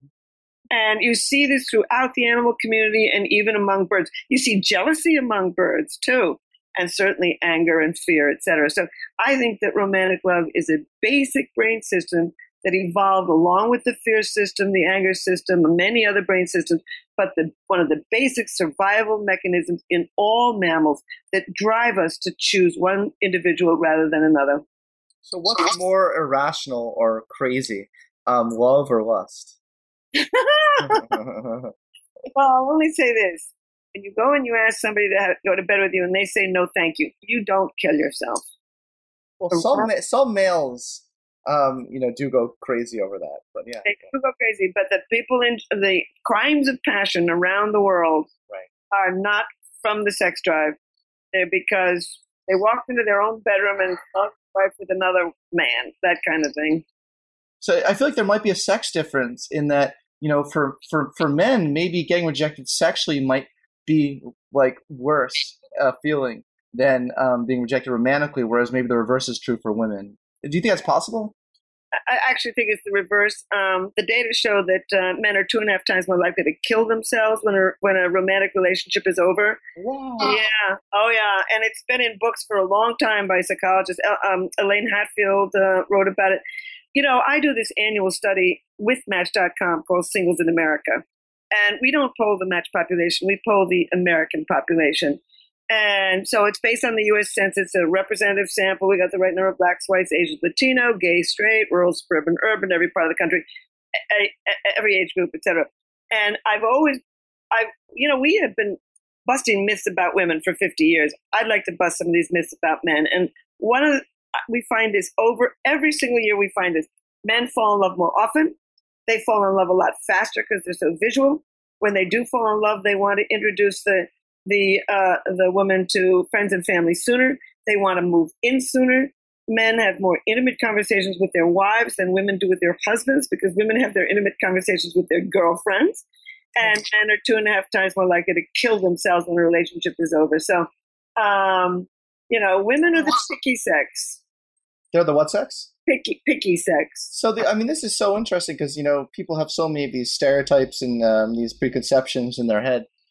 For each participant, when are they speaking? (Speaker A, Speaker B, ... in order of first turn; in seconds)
Speaker A: 0.7-24.6, 30.1-31.2, 32.4-38.4, 39.5-39.9, 43.9-48.3, 48.9-50.8, 51.3-56.8, 72.1-79.6, 80.2-86.4, 87.0-103.5, 104.1-107.0, 107.5-118.5, 119.1-136.0, 136.6-144.2, 145.9-147.1
Speaker B: 25.2-29.6, 30.8-31.7, 39.4-44.0, 57.6-71.3, 79.8-80.4, 144.9-145.7, 147.1-152.9